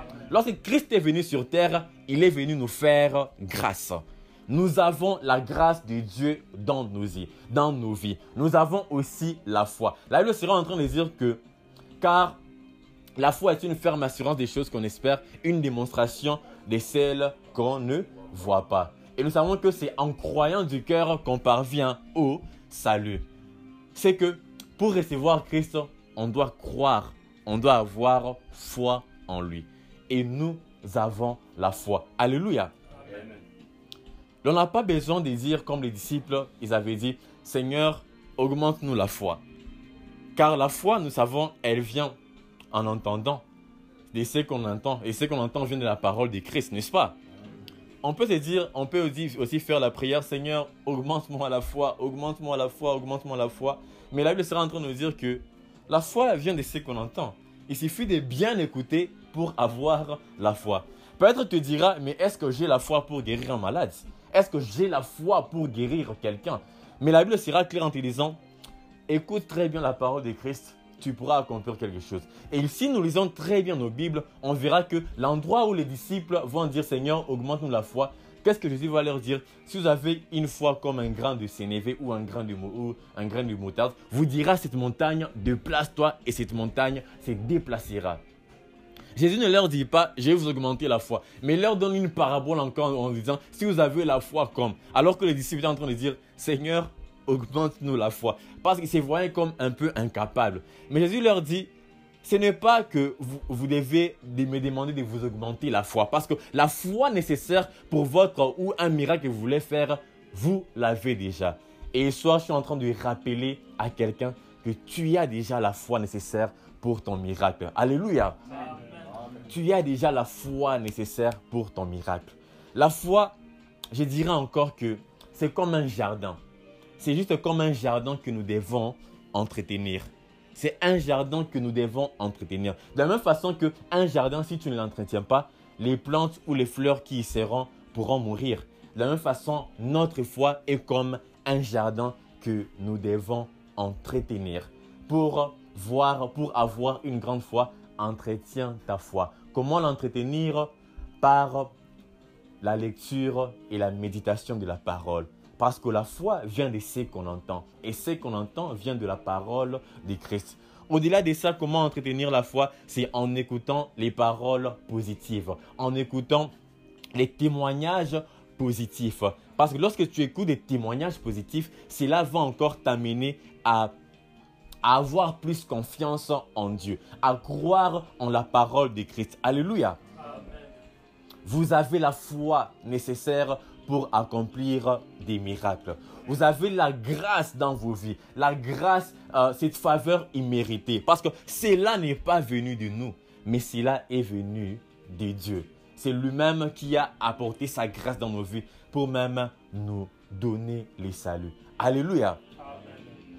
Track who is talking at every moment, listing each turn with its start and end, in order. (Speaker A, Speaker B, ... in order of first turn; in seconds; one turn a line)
Speaker A: 0.3-11.4
Speaker A: 12.0-12.4
Speaker A: 13.2-23.3
Speaker A: 23.9-32.7
Speaker A: 34.4-39.4
Speaker A: 40.4-42.2
Speaker A: 42.7-43.4
Speaker A: 44.1-47.2
Speaker A: 48.0-68.4
Speaker A: 69.1-88.2
Speaker A: 89.2-101.7
Speaker A: 102.2-118.4
Speaker A: 119.5-123.4
Speaker A: 123.9-126.4
Speaker A: 127.0-151.7
Speaker A: 152.6-166.5
Speaker A: 167.2-173.9
Speaker A: 174.8-180.0
Speaker A: 181.4-202.4